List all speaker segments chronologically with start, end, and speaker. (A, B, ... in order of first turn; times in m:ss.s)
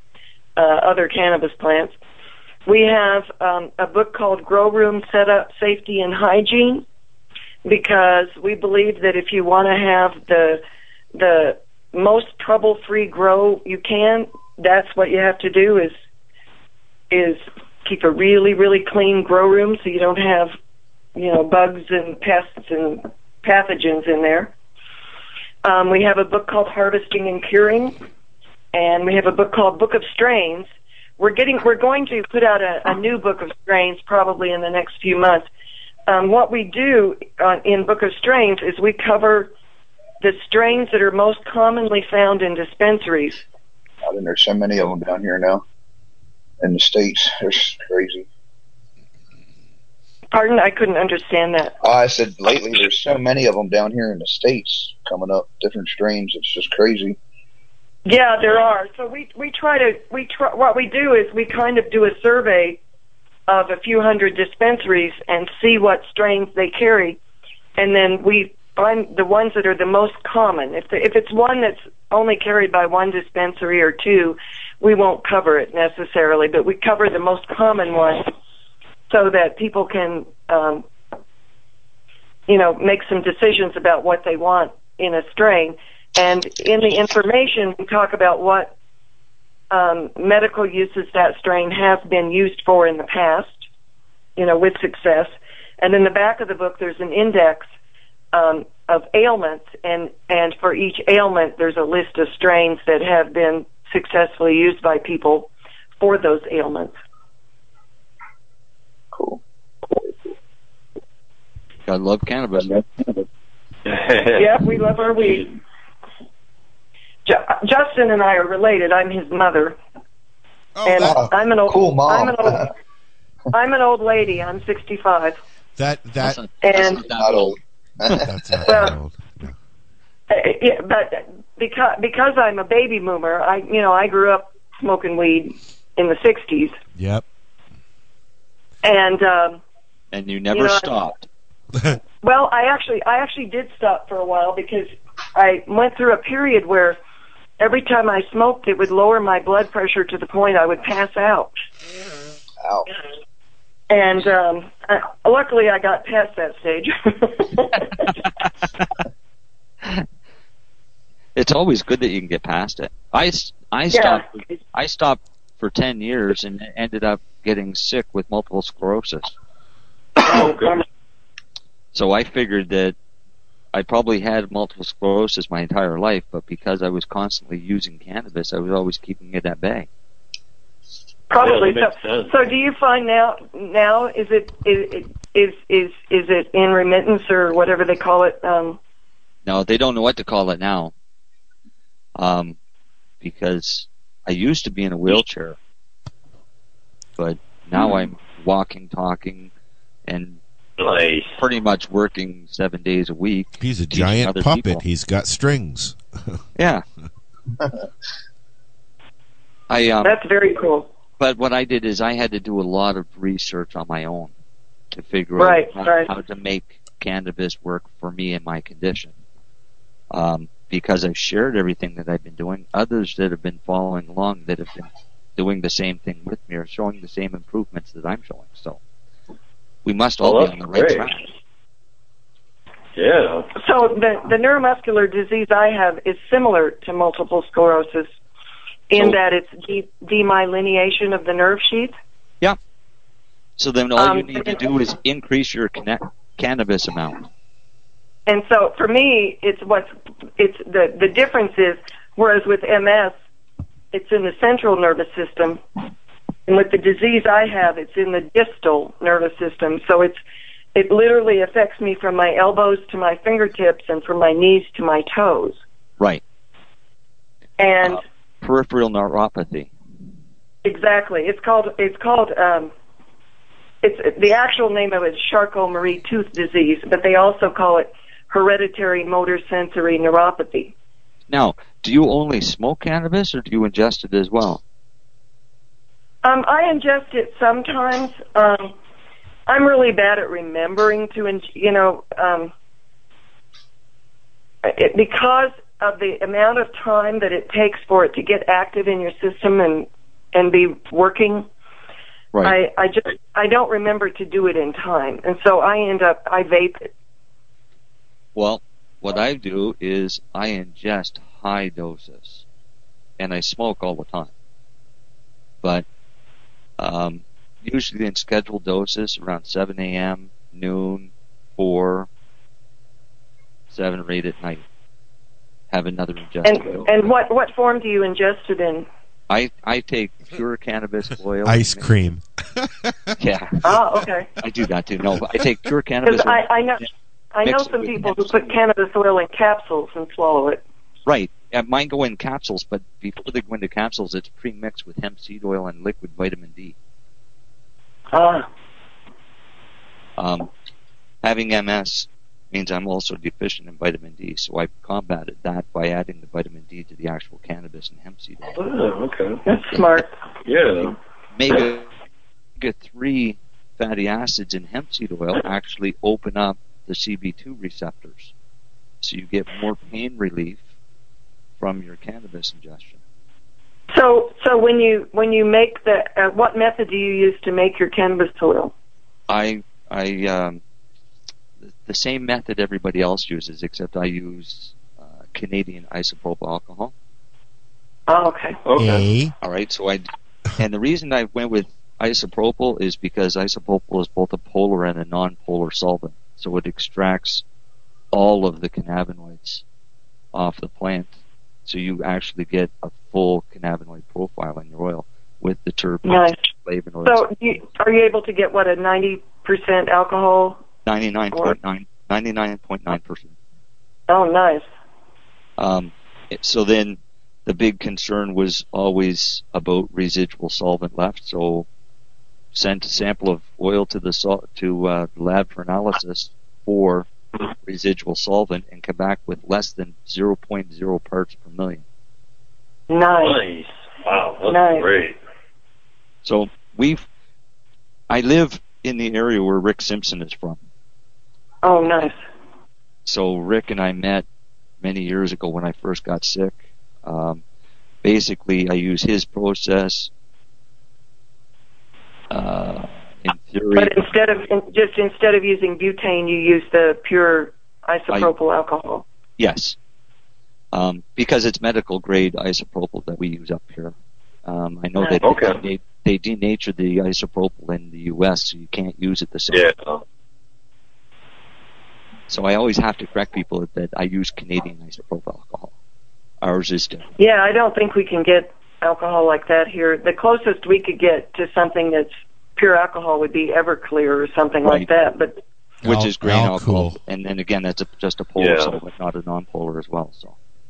0:00.6-0:01.9 A
0:02.7-0:06.8 A
0:07.6-0:10.6 A
0:11.1-0:15.9 A
0:17.1-0:20.5 A
0:21.2-0:24.5 A
0:25.6-0:28.0 A
0:28.7-0:35.5 A
0:36.1-0:39.5 A
0:40.2-0:43.4 A
0:44.0-0:45.6 B
0:46.6-0:48.2 B
0:50.3-0:51.8 A
0:51.8-0:57.2 B
0:58.0-1:02.8 A
1:03.5-1:07.2 A
1:07.8-1:18.3 A
1:19.1-1:20.8 A
1:22.5-1:28.7 A
1:29.7-1:33.6 A
1:34.4-1:37.7 A
1:38.3-1:47.0 A
1:49.1-1:49.4 B
1:51.9-1:52.8 C
1:53.8-1:55.5 D
1:54.3-1:55.5 A
1:57.2-1:59.8 A
2:00.7-2:01.3 E
2:00.8-2:02.7 A
2:01.0-2:02.7 B
2:03.5-2:05.4 A
2:05.8-2:06.4 E
2:06.2-2:07.6 C
2:06.6-2:07.0 A
2:07.1-2:08.7 B
2:08.2-2:09.6 E
2:08.6-2:09.0 A
2:10.3-2:16.8 A
2:16.9-2:17.2 E
2:18.8-2:19.6 A
2:20.1-2:21.2 C
2:20.5-2:21.0 A
2:22.2-2:27.0 A
2:27.6-2:31.5 A
2:32.6-2:32.9 B
2:33.9-2:38.1 A
2:38.0-2:38.9 C
2:41.4-2:49.3 C
2:43.9-2:44.4 A
2:50.2-2:50.8 A
2:50.2-2:50.8 D
2:51.9-2:53.0 C
2:53.7-2:59.9 C
3:01.3-3:08.8 A
3:01.3-3:02.4 D
3:09.4-3:10.9 C
3:12.2-3:12.6 C
3:13.2-3:15.6 C
3:17.2-3:19.5 C
3:20.1-3:20.4 C
3:20.8-3:21.4 D
3:21.4-3:24.8 C
3:23.6-3:26.4 E
3:26.6-3:26.8 C
3:29.7-3:30.2 C
3:30.0-3:30.9 A
3:31.2-3:34.3 C
3:34.9-3:39.1 C
3:35.4-3:36.1 A
3:40.1-3:48.8 C
3:49.8-3:51.3 C
3:50.2-3:51.2 D
3:53.0-3:53.5 D
3:53.6-3:58.1 A
3:58.9-4:01.9 A
4:03.6-4:07.2 C
4:04.0-4:04.7 A
4:08.3-4:13.1 A
4:13.9-4:15.6 A
4:16.5-4:20.2 A
4:20.7-4:25.6 A
4:27.6-4:28.0 A
4:27.8-4:29.7 C
4:30.6-4:32.7 A
4:33.8-4:40.7 A
4:41.3-4:44.6 C
4:46.2-4:48.7 A
4:49.5-4:52.5 A
4:54.6-5:01.5 A
5:02.4-5:06.9 A
5:08.3-5:12.4 C
5:13.2-5:14.3 C
5:16.8-5:22.1 C
5:23.7-5:24.6 C
5:25.7-5:26.9 C
5:26.4-5:28.9 A
5:29.3-5:31.9 C
5:31.4-5:33.1 E
5:33.2-5:33.6 C
5:33.6-5:34.3 A
5:34.4-5:36.4 C
5:36.0-5:40.6 A
5:37.4-5:38.4 C
5:41.0-5:46.8 C
5:48.1-5:48.5 A
5:50.2-5:50.5 C
5:51.2-5:58.6 C
5:58.5-5:59.4 D
5:59.4-6:00.1 A
6:00.4-6:00.9 D
6:00.8-6:01.9 C
6:02.6-6:08.3 C
6:09.0-6:10.6 C
6:11.6-6:13.0 C
6:13.9-6:18.7 A
6:19.3-6:20.6 C
6:21.6-6:26.9 C
6:28.1-6:28.6 A
6:28.6-6:29.0 D
6:28.8-6:29.3 E
6:29.4-6:30.0 C
6:30.6-6:37.4 C
6:38.1-6:39.6 C
6:40.3-6:41.1 C
6:41.6-6:47.2 C
6:46.0-6:46.5 A
6:47.0-6:50.6 A
6:50.8-6:53.3 C
6:51.3-6:51.6 A
6:54.1-6:54.7 A
6:55.6-7:01.7 C
7:02.5-7:07.1 C
7:07.6-7:11.8 C
7:12.9-7:13.4 A
7:13.2-7:15.2 D
7:14.4-7:14.9 A
7:16.2-7:17.0 C
7:18.1-7:20.6 C
7:21.6-7:22.2 A
7:23.0-7:24.2 C
7:24.8-7:27.4 C
7:28.0-7:30.1 C
7:32.3-7:34.0 C
7:33.7-7:39.0 A
7:39.4-7:39.8 C
7:40.7-7:43.9 C
7:44.4-7:49.6 C
7:45.0-7:45.2 A
7:45.2-7:45.6 D
7:49.5-7:50.0 D
7:52.3-7:55.7 C
7:56.4-7:57.0 C
7:57.2-8:05.4 A
8:05.8-8:07.0 E
8:05.8-8:10.4 C
8:08.4-8:08.8 D